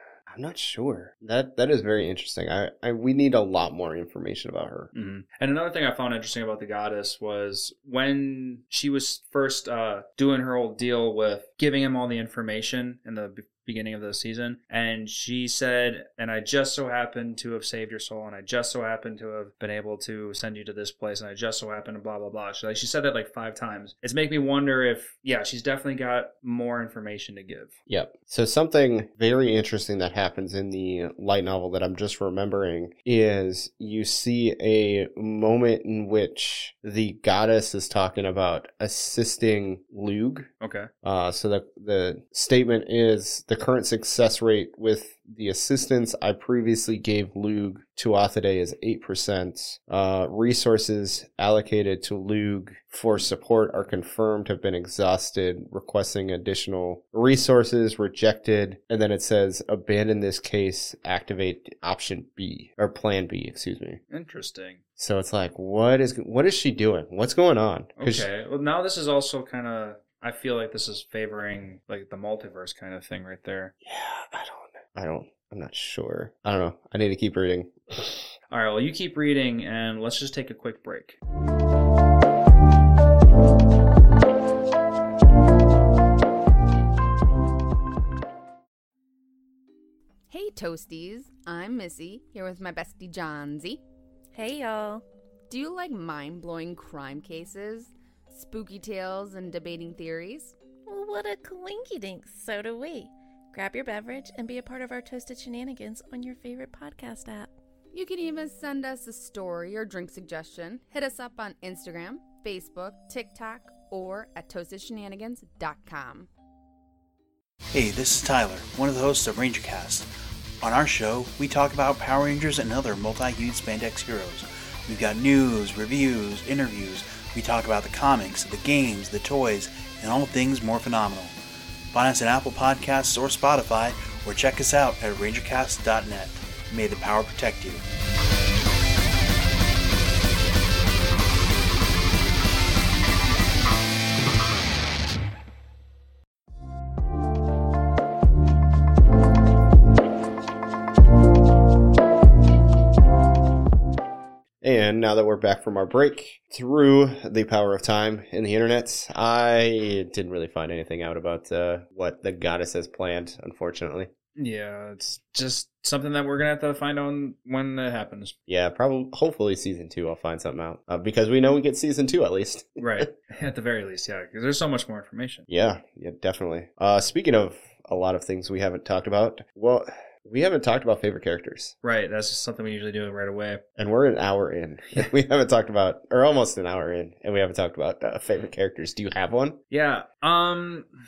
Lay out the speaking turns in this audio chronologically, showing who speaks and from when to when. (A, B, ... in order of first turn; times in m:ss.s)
0:00.3-0:04.9 A
0:04.9-0:27.7 B
0:27.9-0:40.5 A
0:40.6-0:40.9 B
0:41.0-1:04.0 A
1:04.1-1:04.8 B
1:05.0-1:08.3 A
1:08.0-1:13.7 B
1:13.8-1:18.2 A
1:18.5-1:21.2 B
1:30.3-1:33.8 C
1:34.3-1:35.0 D
1:35.5-1:40.5 C
1:40.8-1:47.5 D
1:47.9-1:56.3 C
1:57.7-2:00.1 E
2:00.6-2:11.3 E
2:11.9-2:17.8 E
2:34.6-2:44.1 A
2:44.4-2:48.4 B
2:48.5-2:53.0 A
2:52.8-2:55.5 B
2:55.5-3:01.7 A
3:01.8-3:03.6 B
3:03.8-3:09.6 A
3:09.7-3:10.9 B